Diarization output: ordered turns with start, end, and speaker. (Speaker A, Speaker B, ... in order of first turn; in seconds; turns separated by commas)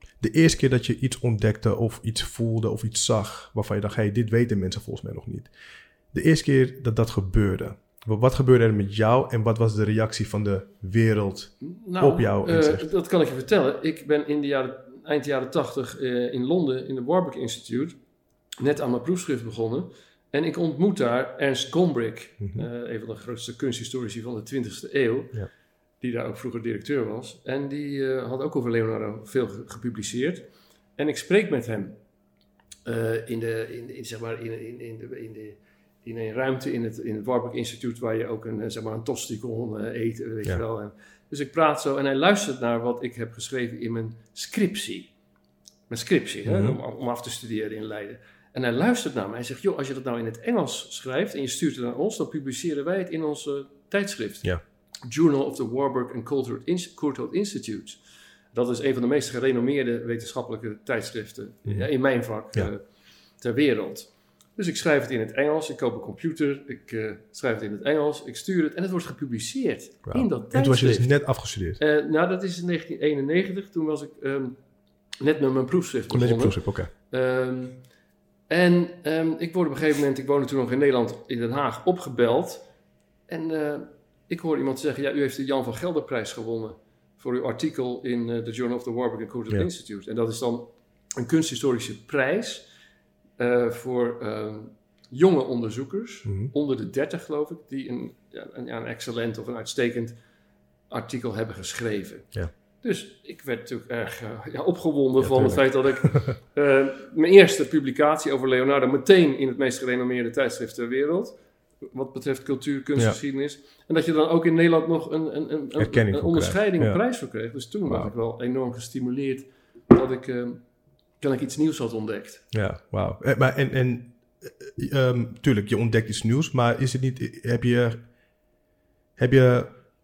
Speaker A: 0.2-5.5, Speaker A: 6.1-12.9, Speaker B: 11.6-18.0, Speaker B: 18.6-25.4, Speaker B: 26.0-32.0, Speaker B: 32.9-45.1, Speaker B: 45.9-54.5, Speaker A: 46.5-46.8, Speaker B: 55.1-58.0, Speaker B: 58.5-62.8, Speaker B: 63.4-71.1, Speaker A: 70.1-71.8, Speaker B: 71.8-74.6, Speaker B: 75.2-77.8, Speaker A: 76.1-76.9, Speaker B: 78.5-82.7, Speaker B: 83.3-92.7, Speaker B: 93.4-100.2, Speaker B: 100.9-120.6, Speaker A: 105.2-106.3, Speaker A: 115.8-117.0, Speaker B: 121.2-122.5, Speaker A: 122.5-128.0, Speaker A: 129.2-129.8